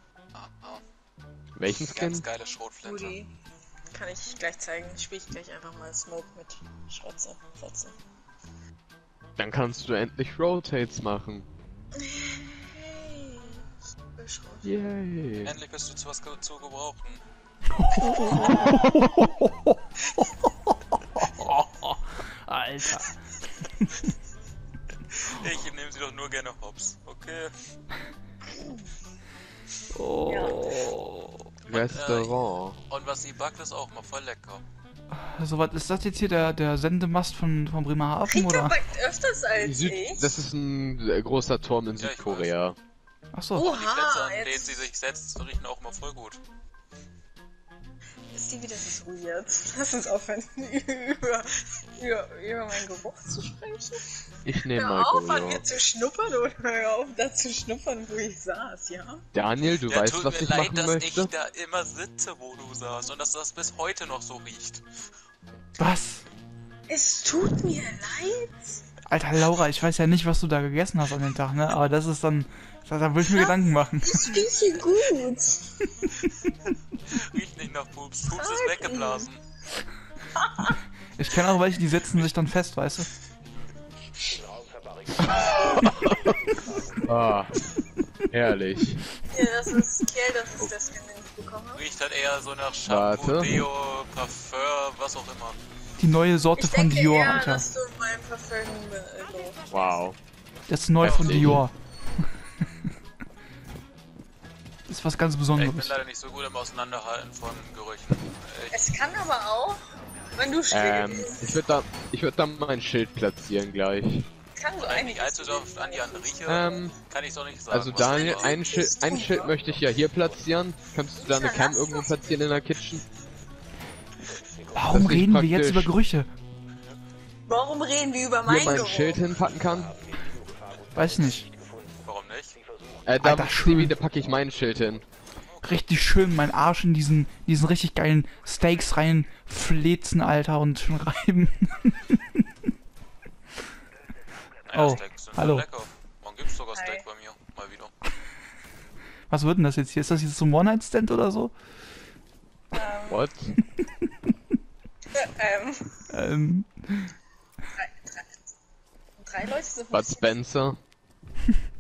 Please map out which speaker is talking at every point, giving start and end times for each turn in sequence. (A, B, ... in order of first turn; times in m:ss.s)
0:00.3-0:00.8 A
0:01.6-0:02.2 B
0:01.8-0:03.2 A
0:02.8-0:03.3 C
0:03.9-0:08.0 C
0:09.4-0:11.5 B
0:12.0-0:14.7 C
0:14.6-0:15.5 B
0:15.4-0:17.2 A
0:17.9-0:19.0 C
0:18.1-0:20.7 D
0:21.4-0:23.1 D
0:25.1-0:27.5 A
0:29.9-0:31.4 D
0:30.2-0:30.7 C
0:31.6-0:32.3 A
0:31.7-0:32.8 B
0:32.9-0:34.6 A
0:35.1-0:38.8 D
0:38.2-0:40.3 C
0:39.6-0:42.8 B
0:42.0-0:42.5 A
0:43.3-0:43.7 D
0:43.5-0:44.9 C
0:43.6-0:46.4 A
0:48.3-0:54.0 C
0:54.4-0:55.6 B
0:54.5-0:59.2 C
0:59.3-1:01.3 B
0:59.9-1:04.8 A
1:05.8-1:06.2 D
1:06.9-1:08.8 C
1:09.1-1:14.4 D
1:13.3-1:15.8 C
1:17.1-1:19.4 A
1:18.2-1:19.3 C
1:20.3-1:20.7 C
1:21.2-1:23.1 D
1:27.0-1:27.6 B
1:28.3-1:29.0 B
1:29.3-1:31.8 C
1:31.7-1:35.6 A
1:32.8-1:33.6 B
1:36.0-1:37.6 D
1:36.6-1:39.6 C
1:39.7-1:40.2 B
1:40.7-1:42.2 D
1:41.0-1:41.6 B
1:41.0-1:41.5 A
1:44.9-1:46.0 D
1:45.5-1:48.8 A
1:48.7-1:49.8 C
1:50.3-1:51.7 C
1:50.7-1:54.3 B
1:54.5-1:56.8 C
1:54.8-1:58.6 A
1:56.4-1:57.0 B
1:57.7-2:03.0 B
1:58.0-1:59.6 C
2:01.2-2:02.6 C
2:04.7-2:06.3 D
2:04.9-2:05.9 B
2:07.5-2:09.3 C
2:08.4-2:09.9 B
2:10.9-2:11.5 D
2:12.0-2:12.6 A
2:13.0-2:15.0 B
2:13.2-2:13.9 D
2:15.4-2:15.8 A
2:15.6-2:22.2 D
2:24.7-2:27.9 A
2:24.7-2:25.7 D
2:26.7-2:27.0 C
2:29.3-2:31.6 D
2:32.7-2:33.3 C
2:33.1-2:33.6 B
2:35.1-2:36.1 C
2:36.1-2:37.1 D
2:37.7-2:38.4 C
2:39.2-2:40.4 C
2:39.9-2:40.8 B